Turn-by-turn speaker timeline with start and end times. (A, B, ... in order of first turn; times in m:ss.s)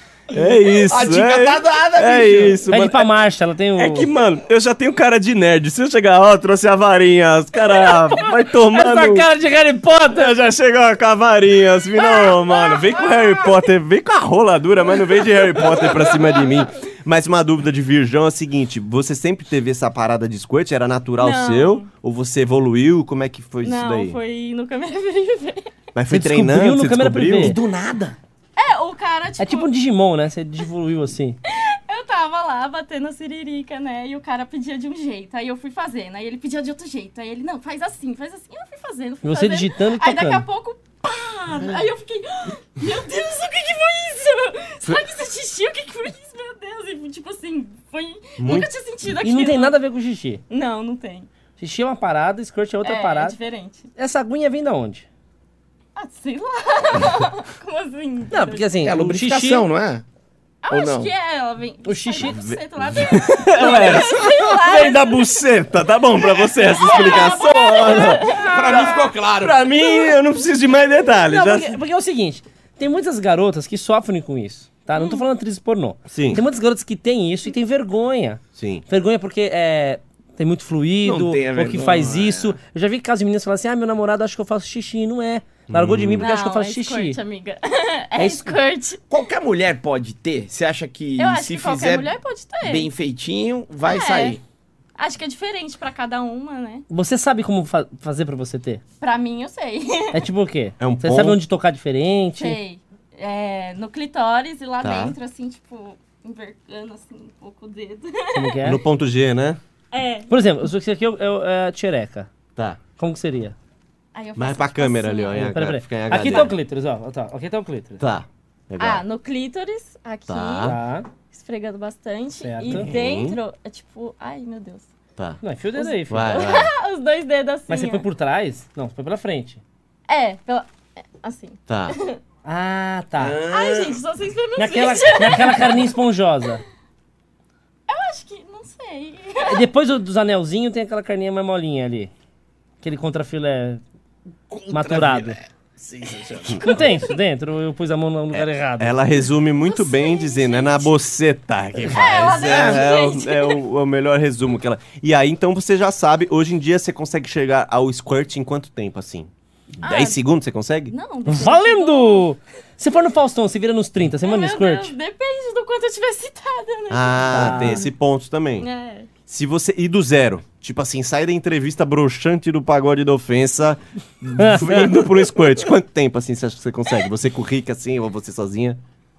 0:00.3-0:03.1 A
0:00.4-0:02.6 B
0:02.7-0:04.1 C
0:03.8-0:09.3 A
0:08.7-0:10.3 C
0:10.1-0:24.2 A
0:12.1-0:13.0 D
0:21.2-0:21.9 D
0:23.6-0:25.8 D
0:26.0-0:27.6 A
0:26.1-0:27.6 C
0:27.4-0:28.2 B
0:28.6-0:29.7 D
0:29.4-0:31.4 C
0:31.5-0:49.8 D
0:39.2-0:40.4 C
0:48.4-0:48.7 A
0:49.2-0:50.4 C
0:50.5-0:51.3 D
0:51.6-0:53.4 C
0:52.8-0:53.9 D
0:54.0-0:55.1 C
0:56.0-0:58.8 D
0:58.3-0:59.7 C
0:58.8-1:00.0 B
1:00.6-1:05.4 D
1:00.7-1:01.1 B
1:01.8-1:02.5 C
1:02.3-1:11.8 A
1:06.7-1:09.1 D
1:08.3-1:09.7 B
1:11.3-1:27.2 C
1:15.0-1:15.2 D
1:16.1-1:16.4 A
1:18.6-1:18.8 A
1:21.0-1:22.6 B
1:25.7-1:26.3 A
1:26.2-1:29.0 D
1:28.2-1:28.6 C
1:29.1-1:32.1 B
1:31.2-1:32.9 D
1:32.6-1:34.4 B
1:33.8-1:34.4 D
1:35.0-1:36.9 D
1:36.9-1:38.8 C
1:39.0-1:40.2 D
1:40.1-1:42.6 C
1:40.8-1:41.4 A
1:42.4-1:48.7 D
1:44.8-1:45.2 A
1:48.3-1:48.8 C
1:48.6-1:49.6 A
1:49.9-1:50.3 D
1:50.3-1:52.3 C
1:52.6-1:52.8 A
1:53.0-1:53.6 C
1:54.1-1:55.5 D
1:54.4-1:56.6 A
1:55.4-1:58.0 C
1:56.2-1:56.5 D
1:58.0-1:59.0 A
1:58.8-2:00.8 D
2:00.3-2:00.8 A
2:00.6-2:01.1 C
2:01.3-2:04.9 D
2:02.4-2:02.9 C
2:02.7-2:03.4 A
2:05.4-2:06.4 C
2:05.8-2:08.0 D
2:06.1-2:06.7 A
2:07.7-2:09.6 C
2:10.1-2:12.2 D
2:11.7-2:12.0 A
2:12.4-2:13.4 C
2:13.2-2:14.0 B
2:13.5-2:15.9 D
2:14.6-2:16.6 C
2:17.9-2:19.6 D
2:19.4-2:22.1 C
2:22.8-2:23.8 C
2:24.5-2:26.8 B
2:24.7-2:25.4 C
2:26.6-2:29.0 C
2:28.3-2:41.0 A
2:29.6-2:31.0 D
2:31.8-2:33.6 D
2:32.4-2:32.8 B
2:39.8-2:40.2 D
2:40.9-2:42.3 D
2:41.3-2:44.9 C
2:44.2-2:47.8 D
2:46.9-2:48.7 A
2:47.3-2:47.9 C
2:48.6-2:49.1 D
2:49.3-2:58.8 A
2:54.4-2:55.0 C